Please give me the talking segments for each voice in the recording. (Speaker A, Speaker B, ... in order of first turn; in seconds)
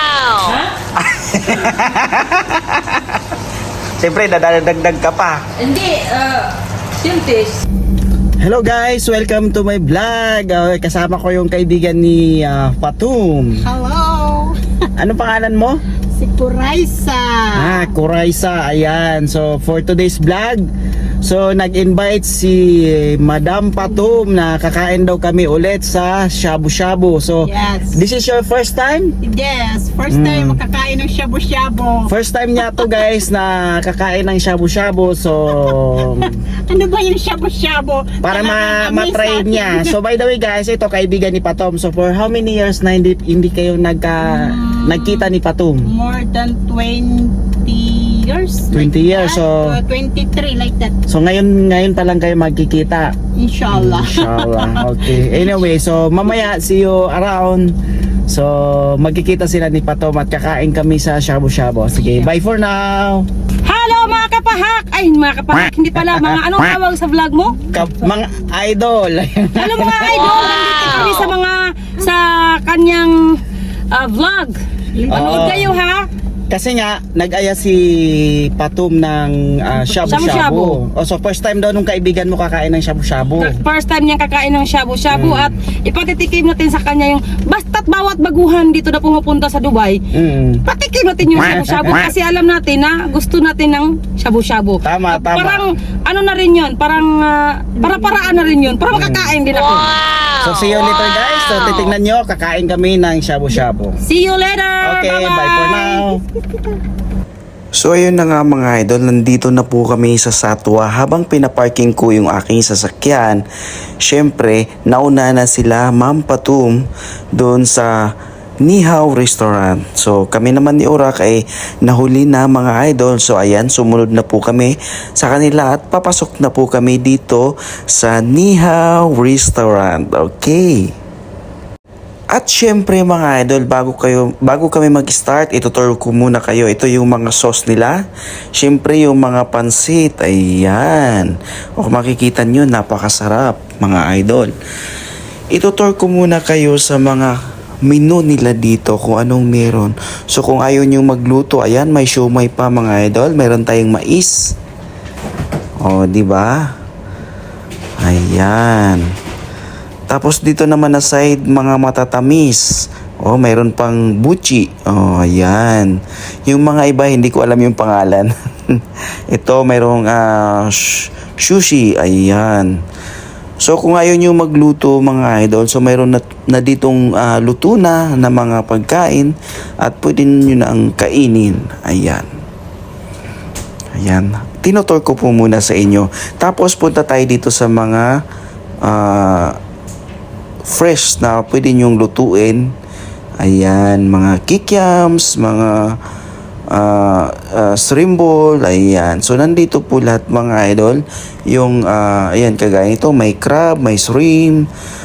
Speaker A: 0.4-0.7, 5.6-7.6, 63.7-67.6, 69.6-73.4, 73.9-74.6, 75.1-76.1, 80.1-80.8, 83.3-90.0, 90.7-100.0, 104.0-105.8
Speaker B: 1.0-3.0, 4.0-5.4, 8.4-13.6, 15.0-15.8, 17.5-20.7, 21.2-29.2, 30.1-30.6, 32.1-36.4, 38.2-45.9, 48.7-49.7, 51.1-53.1, 53.7-57.7, 58.3-63.3, 67.7-70.2, 75.1-75.7, 76.5-83.6, 85.1-85.5, 90.1-90.6, 91.4-91.9, 94.8-95.6, 98.9-99.4, 100.4-104.0, 104.8-106.2, 107.8-113.4, 114.0-116.8, 117.3-117.9, 118.6-130.8, 132.4-137.9, 138.6-141.3, 141.8-144.5, 145.6-147.3, 147.9-154.3, 155.8-156.5, 158.0-159.0, 160.1-162.6, 163.2-165.9, 166.5-168.3, 169.3-170.8, 171.4-172.7, 173.6-179.3, 179.8-182.2, 184.0-188.1, 188.8-189.6, 190.7-192.7, 193.4-195.7, 196.7-201.0, 201.5-204.6
Speaker C: 13.6-14.6, 16.1-17.9, 27.4-28.0, 29.2-32.1, 36.7-39.9, 44.2-45.3, 45.9-51.0, 53.4-55.7, 62.0-62.3, 70.1-71.3, 75.0-75.8, 79.8-80.2, 105.8-106.8